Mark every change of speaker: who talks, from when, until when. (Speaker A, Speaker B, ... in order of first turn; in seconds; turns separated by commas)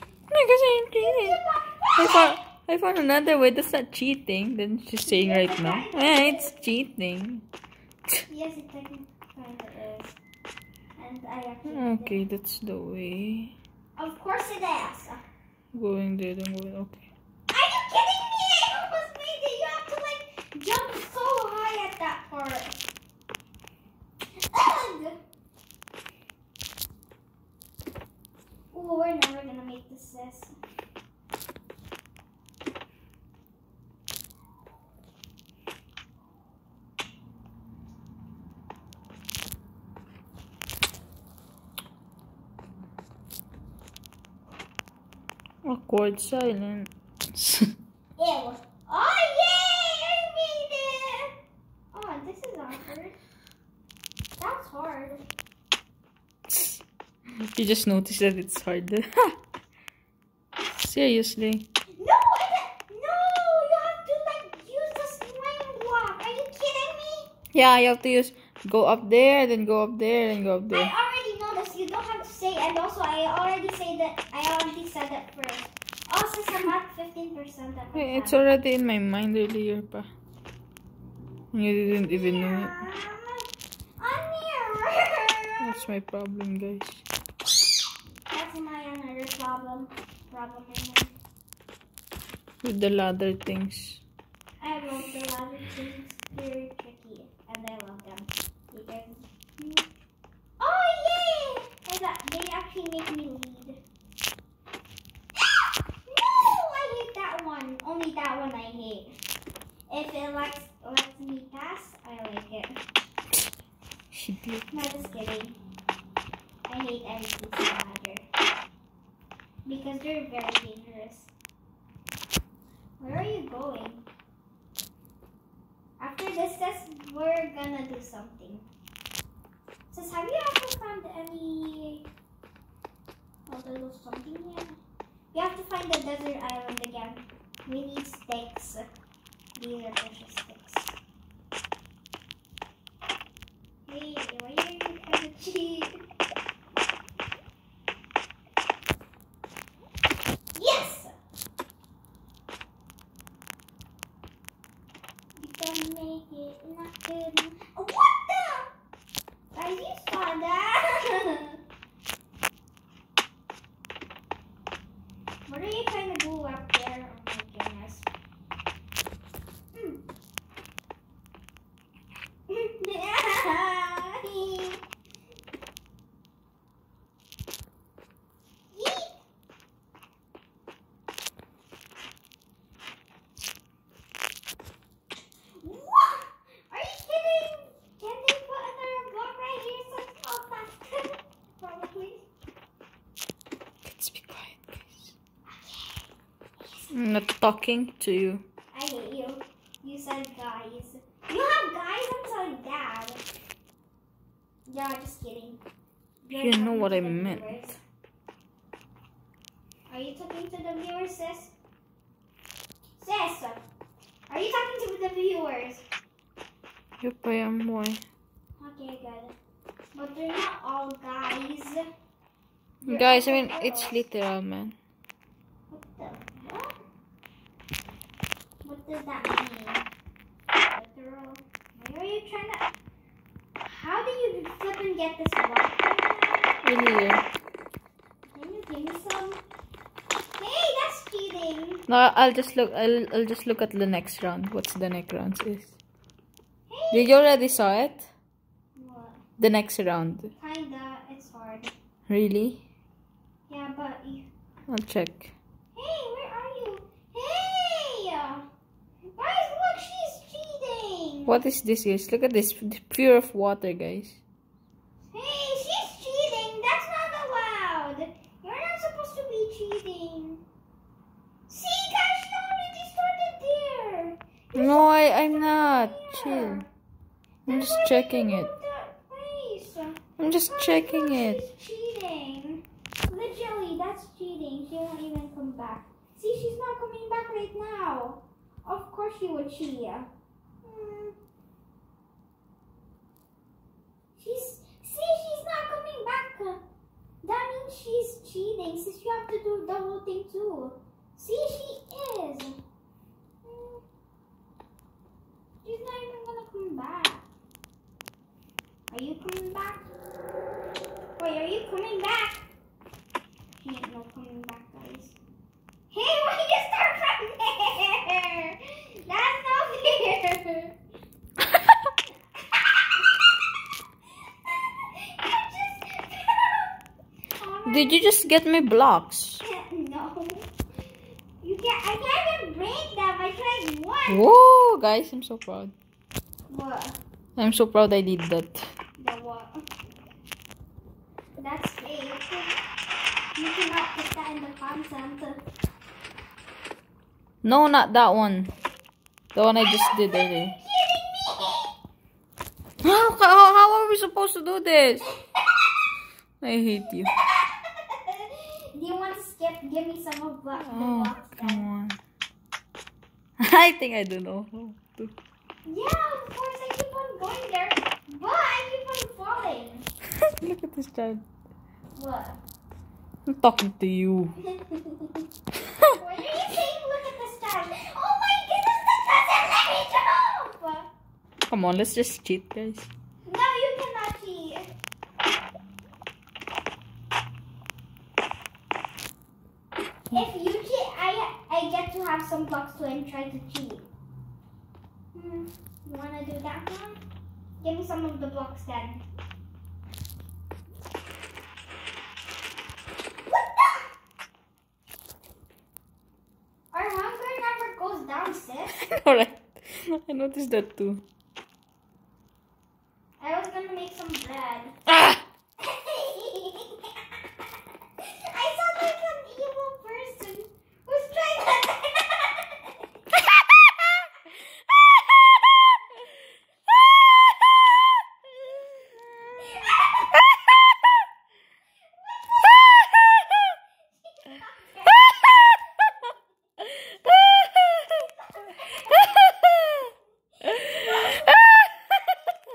Speaker A: 0.3-1.4, Speaker B: 1.0-2.5, Speaker A: 2.0-7.5, Speaker B: 5.1-6.6, Speaker B: 8.3-10.2, Speaker B: 11.0-12.2, Speaker A: 11.7-13.5, Speaker B: 14.0-15.2, Speaker A: 15.7-17.0, Speaker B: 17.5-22.8, Speaker B: 24.4-25.2, Speaker B: 28.7-30.6, Speaker A: 45.6-47.7, Speaker B: 48.2-51.3, Speaker B: 51.9-53.2, Speaker B: 54.4-55.2, Speaker A: 56.5-56.8, Speaker A: 57.5-59.4, Speaker A: 60.7-61.7, Speaker B: 62.0-67.3, Speaker A: 67.5-70.9, Speaker B: 70.7-78.5, Speaker A: 78.0-80.1, Speaker A: 81.5-82.8, Speaker B: 81.9-83.5, Speaker B: 84.0-85.9, Speaker A: 85.6-87.0, Speaker B: 88.3-91.1, Speaker A: 92.6-94.0, Speaker B: 94.6-99.9, Speaker B: 100.6-103.8, Speaker B: 106.1-109.1, Speaker B: 109.9-112.8, Speaker A: 114.1-114.7, Speaker B: 114.7-115.6, Speaker B: 116.7-118.2, Speaker B: 119.7-121.3, Speaker B: 123.0-124.1, Speaker B: 126.0-128.7, Speaker B: 129.9-132.1, Speaker B: 133.5-134.8, Speaker B: 135.3-138.9, Speaker B: 139.6-140.9, Speaker B: 143.9-146.0, Speaker B: 150.6-151.1, Speaker B: 155.4-158.7, Speaker B: 159.5-161.6, Speaker B: 165.5-168.1, Speaker B: 169.7-170.0, Speaker B: 172.5-174.8, Speaker B: 178.7-179.2, Speaker B: 185.6-192.2, Speaker A: 193.8-195.1, Speaker B: 195.5-196.0, Speaker A: 196.9-198.4, Speaker B: 198.7-203.2, Speaker B: 204.7-205.6, Speaker B: 206.2-207.8, Speaker A: 206.3-207.8, Speaker B: 209.9-211.5, Speaker B: 213.0-213.6, Speaker B: 214.3-215.8, Speaker A: 217.0-218.0, Speaker B: 218.6-219.4, Speaker B: 219.9-221.8, Speaker B: 222.8-224.0, Speaker A: 222.9-224.8, Speaker B: 225.7-226.7, Speaker B: 228.6-229.9, Speaker B: 230.7-232.7, Speaker B: 233.7-237.0, Speaker A: 236.6-237.2, Speaker B: 238.3-239.4, Speaker B: 240.4-241.9, Speaker A: 241.9-245.7, Speaker B: 246.7-247.2, Speaker A: 246.9-248.1, Speaker B: 248.8-249.2, Speaker A: 249.4-250.3, Speaker B: 250.4-251.7, Speaker A: 252.1-252.6, Speaker B: 253.5-254.3, Speaker A: 254.7-255.3, Speaker B: 255.8-258.5, Speaker B: 259.2-261.4, Speaker A: 261.3-264.2, Speaker B: 265.1-270.4, Speaker B: 271.5-276.7, Speaker A: 274.6-276.6, Speaker A: 277.5-278.5, Speaker B: 277.5-290.1, Speaker A: 280.2-281.4, Speaker B: 290.6-291.1, Speaker B: 294.2-296.6, Speaker B: 297.2-302.6, Speaker B: 303.4-303.8, Speaker B: 305.6-307.2, Speaker B: 308.9-309.9, Speaker B: 311.2-312.5, Speaker B: 313.6-315.2, Speaker B: 315.9-320.8, Speaker B: 322.5-323.0, Speaker B: 324.5-326.7, Speaker B: 327.4-328.1, Speaker A: 327.7-329.4, Speaker B: 329.4-330.5, Speaker B: 331.4-334.3, Speaker A: 334.1-335.7, Speaker B: 336.5-337.0, Speaker A: 337.4-338.7, Speaker B: 339.0-339.6, Speaker B: 341.4-342.5, Speaker B: 343.4-345.4, Speaker A: 347.4-348.5, Speaker A: 349.4-350.6, Speaker B: 349.6-351.7, Speaker A: 352.8-355.1, Speaker A: 356.4-357.1, Speaker B: 357.9-361.7, Speaker A: 360.6-362.0, Speaker A: 363.4-365.1, Speaker B: 365.6-369.9, Speaker A: 370.3-371.2, Speaker B: 371.9-372.4, Speaker A: 373.3-374.4, Speaker B: 374.4-375.2, Speaker A: 375.7-376.0, Speaker B: 375.9-380.9, Speaker A: 381.5-382.9, Speaker B: 383.3-384.7, Speaker B: 390.1-393.9, Speaker B: 395.1-397.0, Speaker B: 397.6-399.0, Speaker B: 403.3-403.8, Speaker B: 406.7-408.8, Speaker A: 408.8-411.0, Speaker B: 413.2-414.8, Speaker A: 414.9-415.2, Speaker B: 415.6-417.0, Speaker B: 418.0-422.7, Speaker B: 429.4-430.1, Speaker B: 432.1-432.5, Speaker B: 434.1-435.4, Speaker A: 437.4-437.9, Speaker B: 438.2-439.3, Speaker B: 440.5-441.3, Speaker A: 440.9-441.7, Speaker B: 442.0-442.4